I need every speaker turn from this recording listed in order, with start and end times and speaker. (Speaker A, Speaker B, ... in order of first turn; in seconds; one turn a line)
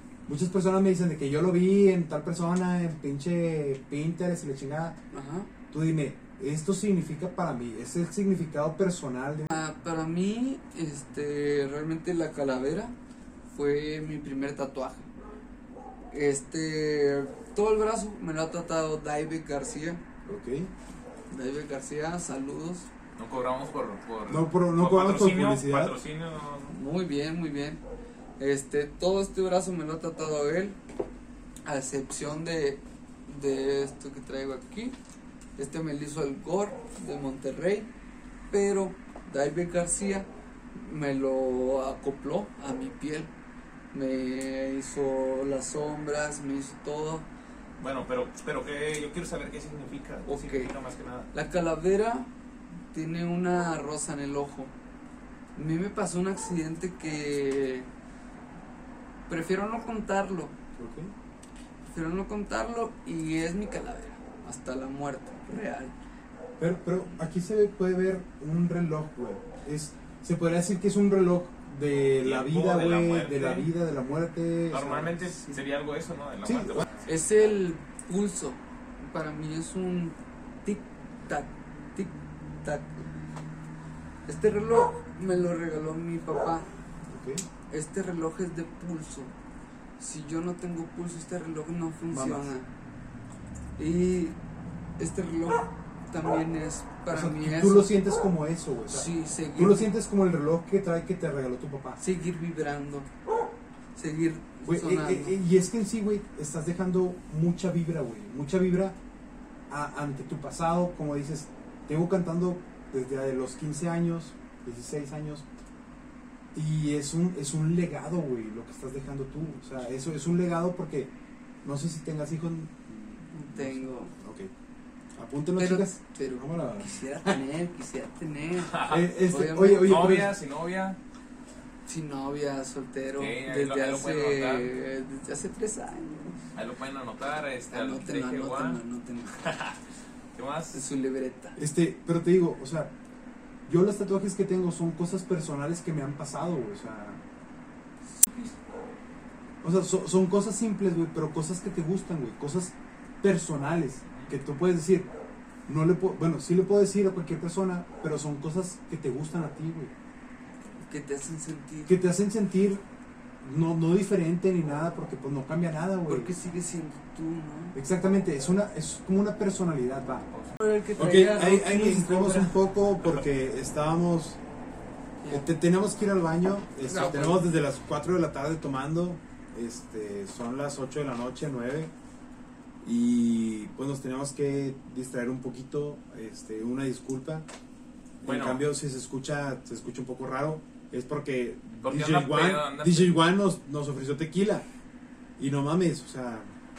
Speaker A: 0.2-5.0
Speaker B: 5.1-5.5
Speaker A: 5.7-9.5
Speaker B: 9.5-12.9
Speaker B: 13.5-15.1
Speaker B: 16.1-20.0
Speaker A: 20.2-20.7
Speaker B: 21.3-22.9
Speaker C: 23.2-26.7
Speaker A: 24.3-25.9
Speaker B: 26.7-27.8
Speaker B: 28.4-30.8
Speaker B: 31.6-35.0
Speaker B: 35.6-37.9
Speaker B: 38.5-43.3
Speaker B: 43.9-47.3
Speaker C: 47.8-51.3
Speaker B: 50.2-50.7
Speaker B: 51.3-52.3
Speaker B: 52.9-54.7
Speaker B: 55.5-57.9
Speaker B: 59.3-60.5
Speaker A: 60.8-61.1
Speaker B: 61.9-65.9
Speaker A: 66.6-75.3
Speaker C: 72.2-73.7
Speaker C: 74.7-77.1
Speaker A: 76.4-76.8
Speaker B: 77.0-82.9
Speaker B: 84.3-86.7
Speaker A: 87.1-87.4
Speaker B: 87.7-89.3
Speaker B: 90.0-92.7
Speaker A: 92.1-92.5
Speaker B: 93.8-94.4
Speaker B: 95.0-97.9
Speaker A: 97.1-102.0
Speaker B: 98.9-99.9
Speaker B: 102.0-103.1
Speaker B: 103.9-105.4
Speaker A: 104.7-109.0
Speaker A: 109.7-115.5
Speaker A: 116.5-121.1
Speaker A: 121.6-124.5
Speaker B: 123.3-124.1
Speaker A: 125.2-127.4
Speaker B: 125.6-130.0
Speaker C: 128.6-129.1
Speaker A: 128.9-130.3
Speaker C: 129.8-131.0
Speaker B: 131.8-136.4
Speaker C: 133.2-134.7
Speaker C: 136.5-138.8
Speaker B: 137.7-139.4
Speaker C: 139.4-139.8
Speaker C: 140.3-140.8
Speaker B: 140.7-141.6
Speaker A: 141.6-142.9
Speaker A: 143.7-147.2
Speaker B: 148.2-148.5
Speaker A: 149.6-155.1
Speaker C: 154.1-154.3
Speaker A: 155.7-159.9
Speaker B: 160.8-161.9
Speaker A: 161.9-162.8
Speaker A: 163.4-166.3
Speaker B: 166.1-167.8
Speaker A: 167.7-170.2
Speaker B: 170.6-172.5
Speaker A: 170.9-174.4
Speaker B: 175.2-175.5
Speaker A: 175.3-181.9
Speaker B: 176.9-177.4
Speaker A: 182.8-187.4
Speaker A: 188.2-194.6
Speaker C: 188.2-188.6
Speaker C: 191.8-193.2
Speaker A: 195.4-196.5